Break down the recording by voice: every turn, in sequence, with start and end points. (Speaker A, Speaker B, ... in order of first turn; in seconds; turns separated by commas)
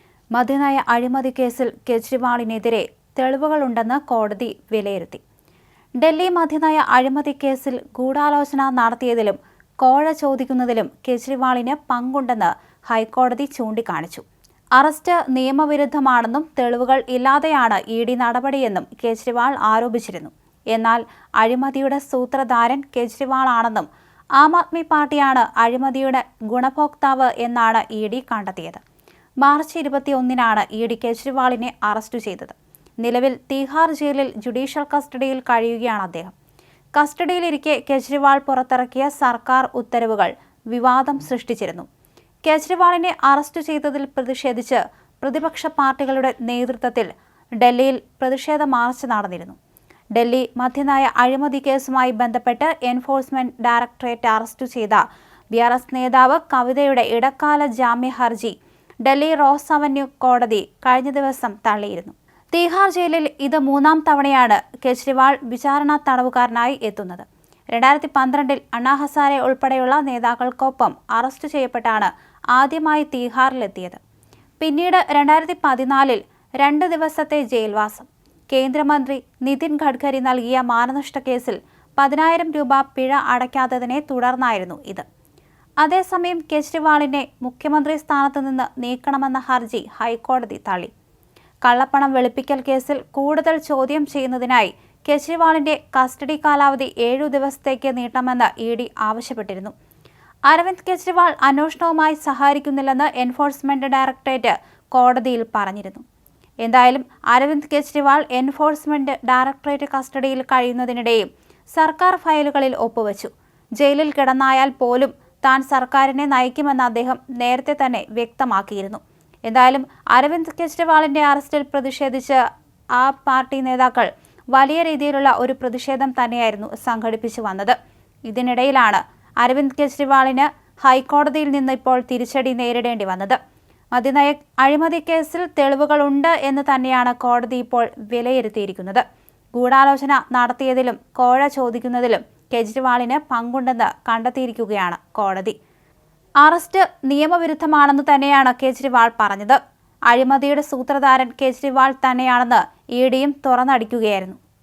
Speaker A: 0.3-5.2, Speaker A: 6.0-14.2, Speaker A: 14.8-28.8, Speaker A: 29.4-36.3, Speaker A: 36.9-41.9, Speaker A: 42.4-47.1, Speaker A: 47.6-49.5, Speaker A: 50.1-55.0, Speaker A: 55.5-74.0, Speaker A: 74.6-85.0, Speaker A: 85.8-90.9, Speaker A: 91.6-99.7, Speaker A: 100.5-106.0, Speaker A: 106.6-122.4, Speaker A: 123.0-127.7, Speaker A: 128.3-133.4, Speaker A: 133.9-139.0, Speaker A: 139.5-145.5, Speaker A: 146.4-154.4